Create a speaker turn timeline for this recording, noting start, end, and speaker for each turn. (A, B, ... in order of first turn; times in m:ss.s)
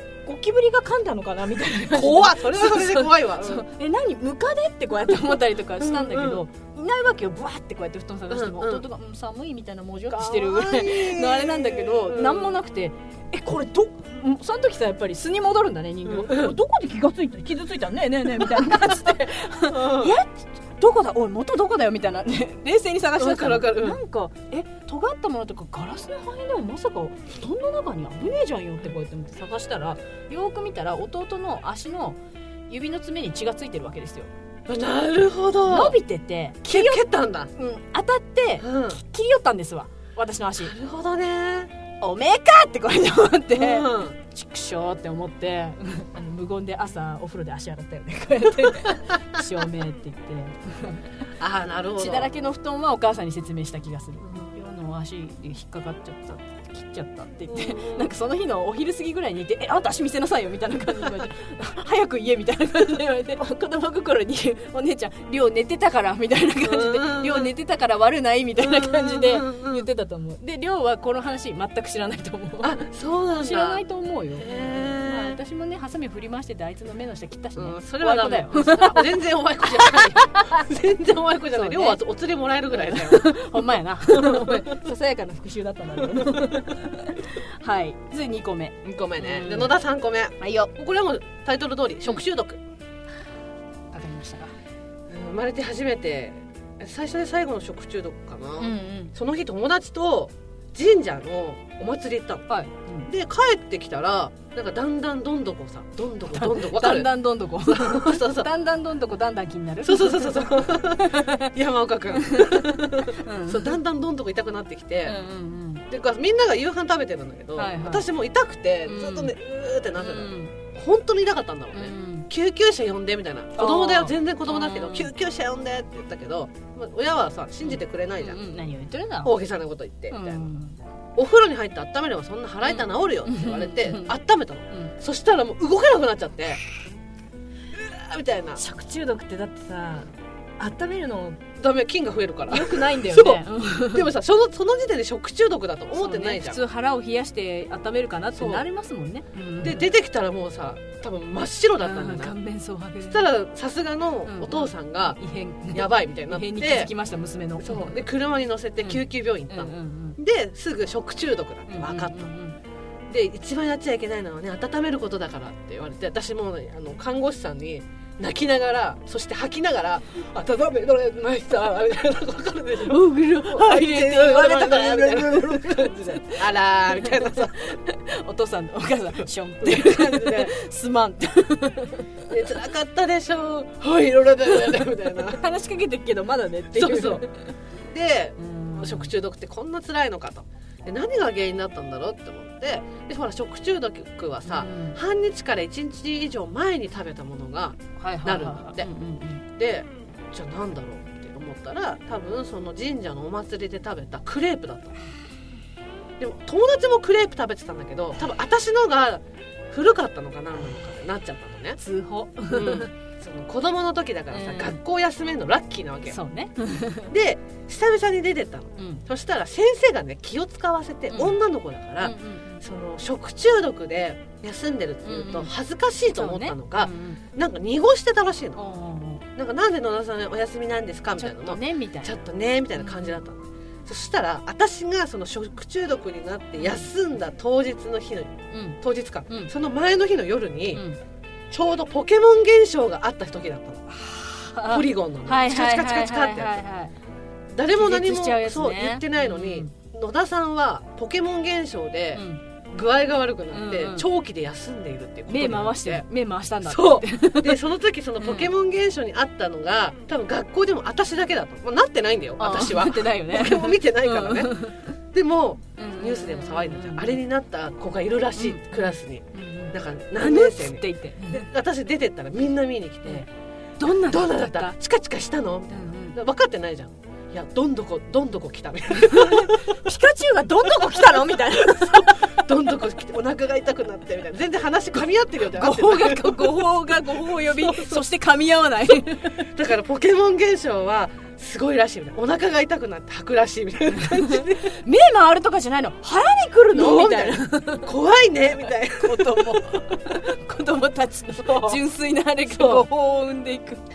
0:00.2-0:34.3 A
0:01.9-0:03.6 B
0:05.8-0:06.4 B
0:08.3-0:08.8 B
0:10.1-0:12.6 B
0:16.0-0:16.6 B
0:19.7-0:20.2 B
0:23.2-0:24.0 B
0:34.7-0:36.0 B
0:35.7-0:37.0 A
0:36.6-0:37.5 B
0:37.6-0:40.7 A
0:38.6-0:39.0 B
0:40.6-0:41.7 B
0:42.0-0:51.0 A
0:43.5-0:44.2 B
0:51.4-0:52.3 B
0:52.0-1:12.8 A
0:57.5-0:58.1 B
1:06.6-1:07.5 B
1:08.6-1:09.9 B
1:12.6-1:13.8 B
1:13.4-1:19.1 A
1:14.4-1:15.4 B
1:17.6-1:23.4 B
1:19.6-1:20.7 A
1:21.5-1:22.0 A
1:22.7-1:29.7 A
1:24.0-1:24.7 B
1:26.0-1:26.7 B
1:28.8-1:32.6 B
1:30.4-1:30.7 A
1:33.9-1:34.5 A
1:35.1-1:42.5 B
1:38.6-1:39.1 A
1:42.5-1:43.1 A
1:43.1-1:47.1 B
1:46.3-1:51.5 A
1:47.6-1:48.5 B
1:49.8-1:55.2 B
1:52.2-1:53.8 A
1:55.0-1:55.8 A
1:55.9-2:08.4 B
1:57.6-1:58.1 A
1:58.8-1:59.3 A
2:00.0-2:00.5 A
2:01.7-2:02.3 A
2:03.6-2:05.1 A
2:07.6-2:09.3 A
2:09.2-2:10.5 B
2:10.1-2:10.8 A
2:11.2-2:16.6 B
2:12.6-2:14.1 A
2:17.7-2:18.6 B
2:18.6-2:21.4 A
2:21.6-2:26.6 B
2:22.5-2:24.1 A
2:25.9-2:29.9 A
2:28.3-2:28.6 B
2:29.6-2:32.3 B
2:31.8-2:33.3 A
2:33.1-2:35.2 B
2:34.2-2:38.0 A
2:35.7-2:36.9 B
2:37.6-2:42.3 B
2:38.8-2:40.2 A
2:41.7-2:42.6 A
2:43.1-2:57.7 B
2:52.8-3:02.1 A
2:59.6-3:00.5 B
3:02.3-3:05.4 B
3:04.6-3:07.5 A
3:06.7-3:07.2 B
3:07.8-3:18.9 B
3:08.4-3:09.1 A
3:14.4-3:15.0 A
3:18.0-3:19.4 A
3:19.5-3:25.0 B
3:26.2-3:31.8 B
3:31.8-3:32.9 A
3:32.5-3:36.2 B
3:34.3-3:34.8 A
3:36.1-3:37.1 A
3:37.1-3:48.6 B
3:38.8-3:39.0 A
3:41.1-3:41.4 A
3:42.0-3:42.6 A
3:45.0-3:45.5 A
3:46.1-3:47.2 A
3:48.5-3:49.2 A
3:49.4-4:00.8 B
3:51.2-3:52.2 A
3:52.8-3:53.2 A
3:56.6-3:56.9 A
3:58.5-3:59.5 A
4:00.7-4:01.0 A
4:01.5-4:03.8 B
4:03.9-4:06.9 A
4:04.7-4:06.6 B
4:07.5-4:16.0 B
4:07.7-4:09.7 A
4:12.1-4:12.4 A
4:13.5-4:14.0 A
4:15.3-4:17.6 A
4:16.6-4:24.5 B
4:18.2-4:18.5 A
4:22.4-4:25.0 A
4:25.1-4:33.3 B
4:25.8-4:27.2 A
4:28.4-4:31.5 A
4:33.8-4:34.8 A
4:33.9-4:39.8 B
4:35.7-4:36.2 A
4:38.9-4:42.5 A
4:40.6-4:48.0 B
4:45.5-4:49.5 A
4:49.5-4:54.7 B
4:53.9-4:57.9 A
4:56.7-5:00.1 B
4:59.0-5:03.8 A
5:01.4-5:01.8 B
5:02.5-5:02.8 B